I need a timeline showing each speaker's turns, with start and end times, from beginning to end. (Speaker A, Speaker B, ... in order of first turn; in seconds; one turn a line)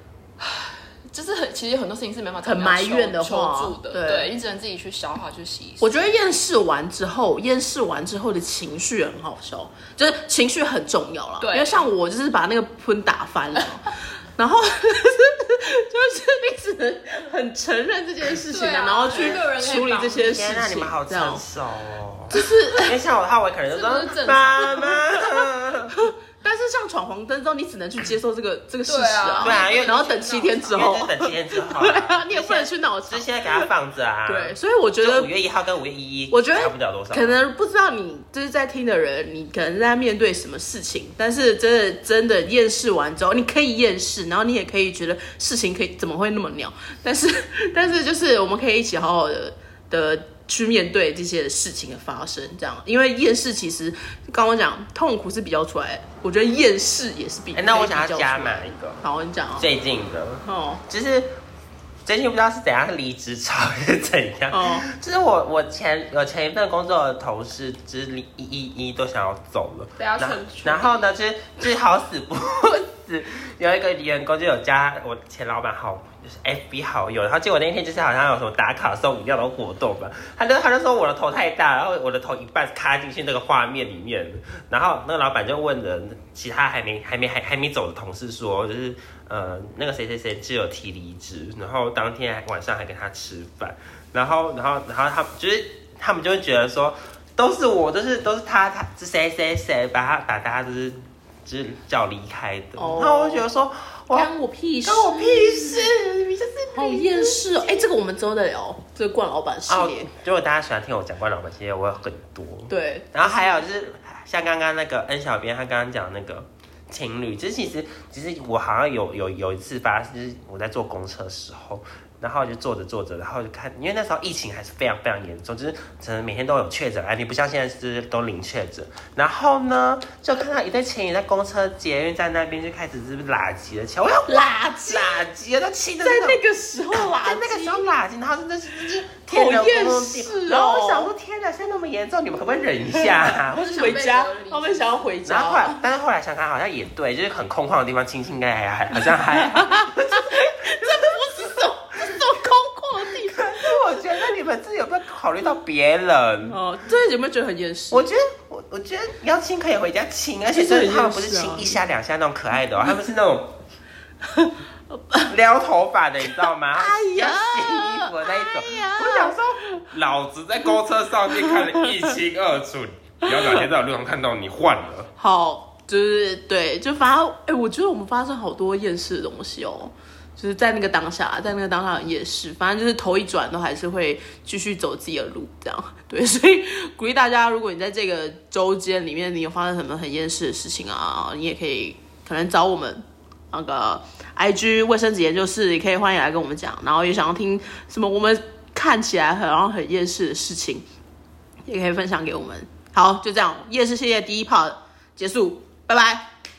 Speaker A: 0.4-5.9
Speaker B: 2.4-4.3
Speaker B: 5.8-21.4
Speaker A: 11.4-11.8
Speaker A: 18.5-20.3
Speaker C: 19.9-25.9
Speaker B: 22.3-22.9
Speaker A: 23.7-25.0
Speaker B: 24.6-25.0
Speaker B: 25.9-33.6
Speaker A: 28.9-31.0
Speaker C: 29.4-30.0
Speaker C: 30.7-37.4
Speaker B: 34.2-35.3
Speaker B: 36.3-59.7
Speaker C: 57.5-59.0
Speaker C: 59.6-61.3
Speaker B: 60.4-60.8
Speaker C: 62.0-104.3
Speaker B: 64.5-64.8
Speaker A: 70.0-71.1
Speaker B: 102.8-103.5
Speaker B: 104.1-105.9
Speaker C: 104.8-107.9
Speaker B: 106.7-110.1
Speaker C: 109.7-136.4
Speaker B: 112.7-113.6
Speaker B: 134.2-135.2
Speaker B: 136.0-137.9
Speaker C: 136.9-143.9
Speaker B: 139.3-141.1
Speaker B: 143.0-145.8
Speaker A: 143.5-145.1
Speaker C: 145.2-151.0
Speaker B: 149.1-153.8
Speaker C: 153.1-156.6
Speaker B: 156.4-158.1
Speaker C: 157.9-163.5
Speaker B: 160.5-161.8
Speaker B: 164.3-165.3
Speaker C: 165.3-175.1
Speaker B: 166.7-169.4
Speaker B: 171.4-171.8
Speaker B: 173.3-173.6
Speaker B: 175.2-200.8
Speaker B: 201.6-206.3